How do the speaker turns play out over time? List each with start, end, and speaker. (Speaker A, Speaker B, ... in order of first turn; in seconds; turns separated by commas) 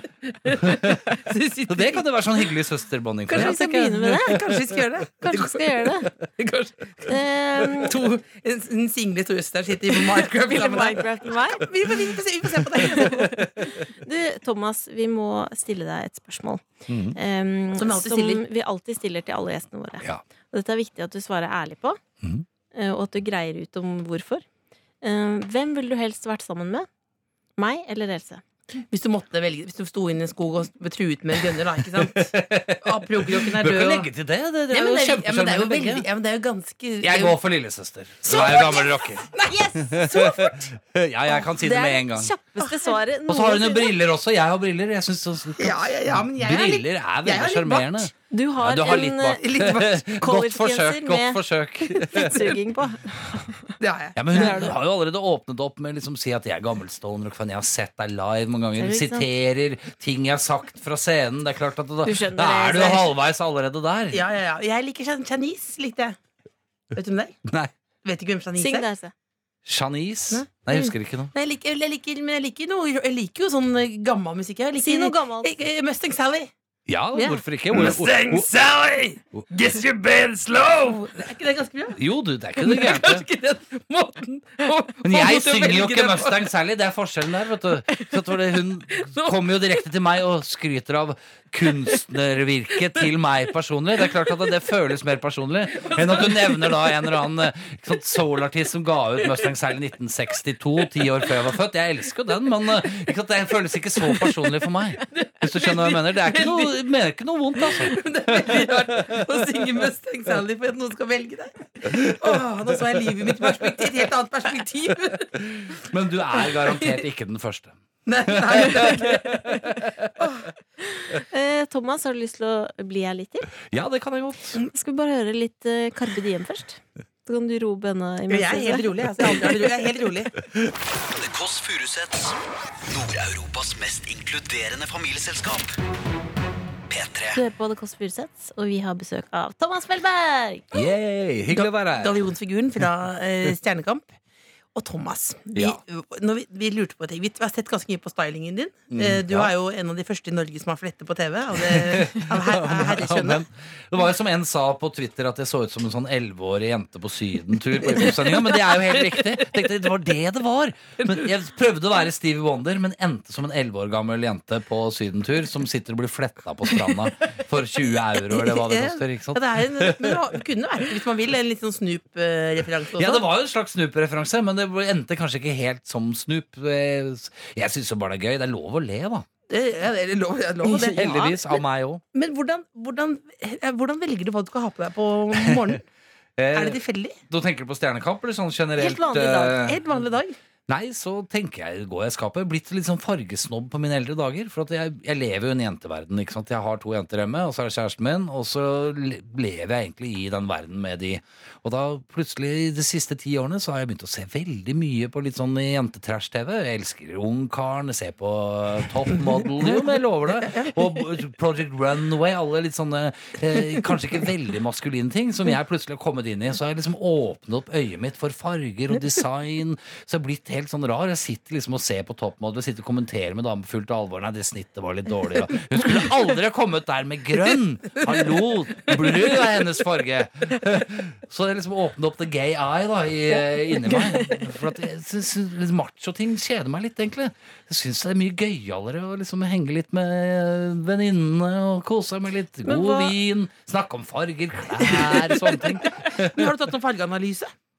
Speaker A: 0.5-2.0, Speaker B: 0.5-1.1, Speaker B: 1.7-4.2, Speaker C: 3.3-4.4, Speaker A: 3.4-13.5, Speaker C: 5.2-6.1, Speaker C: 7.1-8.0, Speaker C: 10.4-11.7, Speaker C: 12.8-22.0, Speaker B: 16.9-17.2, Speaker A: 17.8-18.4, Speaker C: 22.7-24.4, Speaker C: 25.0-26.9, Speaker C: 27.6-28.4, Speaker A: 28.9-34.1, Speaker B: 32.0-36.0, Speaker A: 34.7-37.4, Speaker B: 37.0-42.3, Speaker A: 38.2-40.7, Speaker C: 41.5-43.9, Speaker A: 42.6-42.9, Speaker B: 43.3-52.5, Speaker A: 45.6-48.1, Speaker C: 48.3-49.4, Speaker A: 49.4-50.1, Speaker C: 50.2-53.7, Speaker A: 53.8-54.7, Speaker B: 54.2-64.2, Speaker C: 54.4-54.7, Speaker C: 58.8-59.3, Speaker C: 62.0-63.1, Speaker A: 64.1-66.2, Speaker A: 66.9-67.4, Speaker B: 67.5-67.7, Speaker A: 68.0-68.9, Speaker C: 68.6-69.1, Speaker B: 69.7-71.3, Speaker A: 70.3-76.5, Speaker C: 74.8-75.5, Speaker B: 76.9-81.0, Speaker A: 77.1-79.8, Speaker A: 80.8-82.0, Speaker B: 82.0-83.3, Speaker A: 82.6-86.5, Speaker B: 85.0-109.2, Speaker A: 105.6-106.8, Speaker A: 107.7-115.3, Speaker B: 115.3-120.1, Speaker A: 118.1-119.5, Speaker C: 121.0-123.5, Speaker B: 123.7-124.6, Speaker C: 124.6-129.4, Speaker A: 128.3-130.3, Speaker D: 131.1-135.8, Speaker D: 136.9-137.4, Speaker C: 137.3-140.8, Speaker B: 140.7-142.2, Speaker A: 141.5-144.1, Speaker A: 144.7-153.5, Speaker B: 148.9-149.5, Speaker B: 151.6-170.2, Speaker A: 168.2-173.2, Speaker B: 173.0-179.3, Speaker A: 179.5-181.4, Speaker C: 180.7-181.3, Speaker B: 180.8-182.0, Speaker A: 182.1-185.8, Speaker B: 186.4-189.8, Speaker A: 186.5-187.2, Speaker C: 188.8-189.6, Speaker A: 189.5-190.3, Speaker B: 190.7-246.5, Speaker A: 210.4-210.7, Speaker C: 242.7-243.1, Speaker A: 244.8-247.5